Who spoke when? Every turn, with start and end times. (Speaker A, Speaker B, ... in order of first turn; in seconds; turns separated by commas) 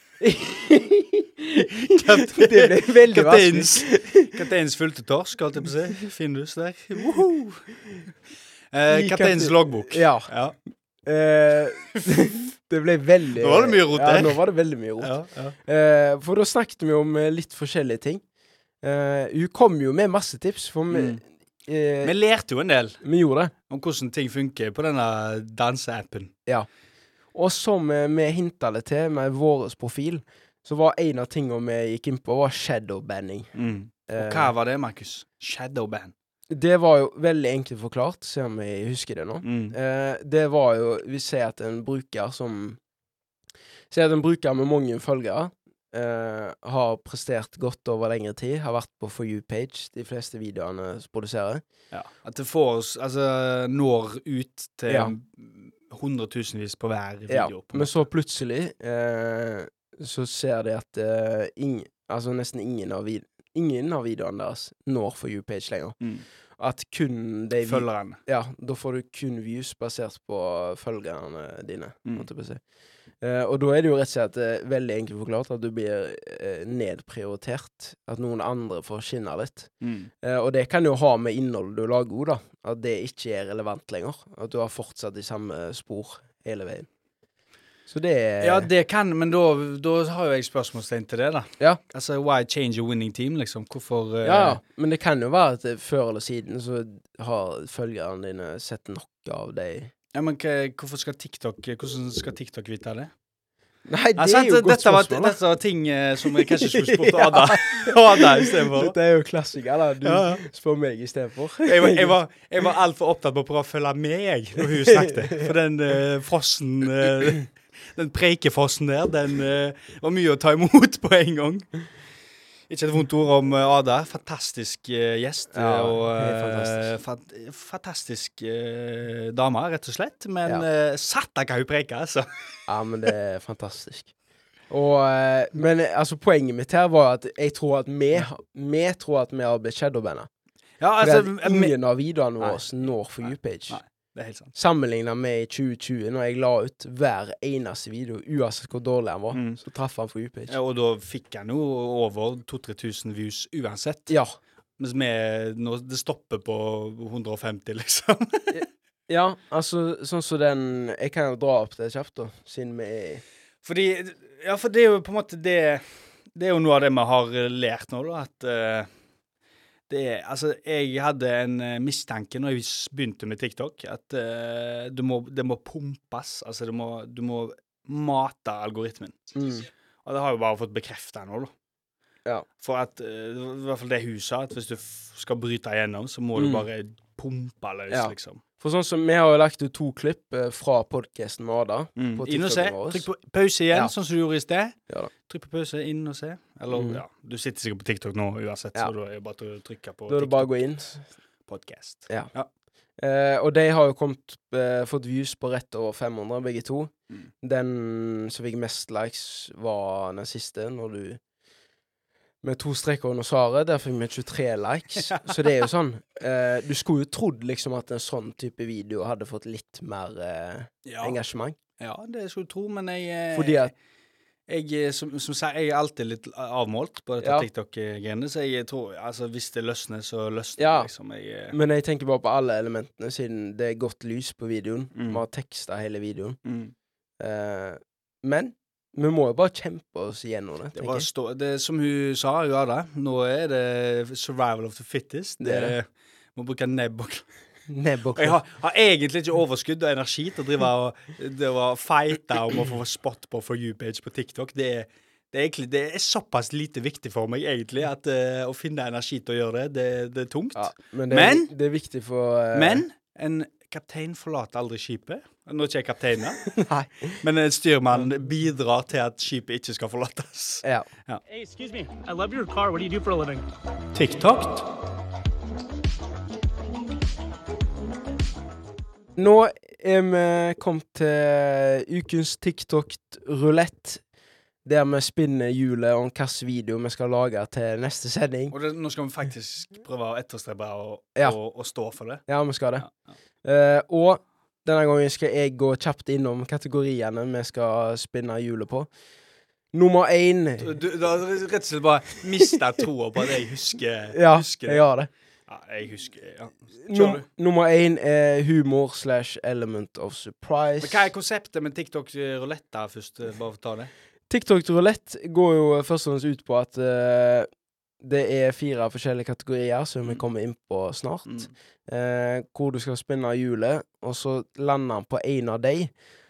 Speaker A: 0.2-4.3, Speaker B: 1.8-7.7, Speaker B: 8.7-10.6, Speaker A: 8.9-10.3, Speaker A: 11.0-15.1, Speaker B: 13.4-14.4, Speaker B: 15.0-15.6, Speaker A: 15.6-18.2, Speaker A: 18.8-22.1, Speaker B: 20.9-21.2, Speaker B: 22.0-23.0, Speaker A: 23.0-23.5, Speaker B: 23.7-26.3, Speaker A: 27.3-33.5, Speaker B: 33.5-36.1, Speaker A: 34.1-34.5, Speaker A: 36.5-42.8, Speaker B: 39.4-39.8, Speaker A: 43.9-51.6, Speaker B: 51.9-58.0, Speaker A: 54.9-55.1, Speaker A: 57.3-66.0, Speaker A: 66.6-72.6, Speaker B: 67.6-68.2, Speaker A: 73.2-79.7, Speaker B: 79.8-80.1, Speaker A: 80.2-86.9, Speaker A: 87.9-88.7, Speaker B: 88.4-94.6, Speaker A: 94.2-99.9, Speaker B: 100.1-103.1, Speaker A: 103.9-105.4, Speaker B: 104.2-109.0, Speaker A: 106.3-112.1, Speaker B: 110.0-110.4, Speaker B: 111.6-121.7, Speaker A: 114.6-115.5, Speaker B: 122.7-132.3, Speaker A: 125.5-126.9, Speaker A: 132.7-134.1, Speaker A: 134.7-140.3, Speaker B: 140.8-141.8, Speaker A: 141.0-143.8, Speaker B: 142.4-142.7, Speaker B: 143.2-144.5, Speaker A: 144.5-150.6, Speaker B: 149.3-149.6, Speaker B: 150.5-154.1, Speaker A: 154.1-154.3, Speaker B: 154.8-158.6, Speaker A: 158.5-163.2, Speaker B: 163.6-168.9, Speaker B: 169.9-179.4, Speaker A: 179.3-179.7, Speaker B: 180.0-181.5, Speaker B: 182.6-188.4, Speaker A: 186.3-186.7, Speaker A: 187.9-193.1, Speaker B: 192.0-200.5, Speaker A: 196.7-197.0, Speaker A: 200.1-201.0, Speaker B: 201.5-202.5, Speaker A: 203.0-211.2, Speaker A: 212.4-221.6, Speaker B: 214.9-215.4, Speaker B: 220.8-221.2, Speaker B: 221.8-223.7, Speaker A: 223.3-223.7, Speaker B: 224.5-231.6, Speaker A: 227.2-227.5, Speaker A: 230.6-230.9, Speaker A: 231.5-236.4, Speaker B: 234.9-235.2, Speaker B: 236.4-236.7, Speaker A: 237.2-241.1, Speaker B: 240.7-247.2, Speaker A: 245.4-245.7, Speaker A: 247.7-248.4, Speaker B: 248.2-261.5, Speaker A: 260.5-262.8, Speaker B: 262.5-266.5, Speaker A: 266.5-267.2, Speaker B: 267.2-271.2, Speaker C: 271.3-273.4, Speaker B: 273.9-274.7, Speaker A: 279.2-284.0, Speaker A: 284.6-288.5, Speaker B: 288.5-292.2, Speaker A: 292.3-292.8, Speaker A: 293.4-298.9, Speaker A: 299.7-300.8, Speaker B: 300.6-304.8, Speaker A: 304.1-305.1, Speaker B: 305.5-307.2, Speaker A: 306.8-311.1, Speaker B: 310.8-313.9, Speaker A: 314.3-317.5, Speaker A: 318.0-325.9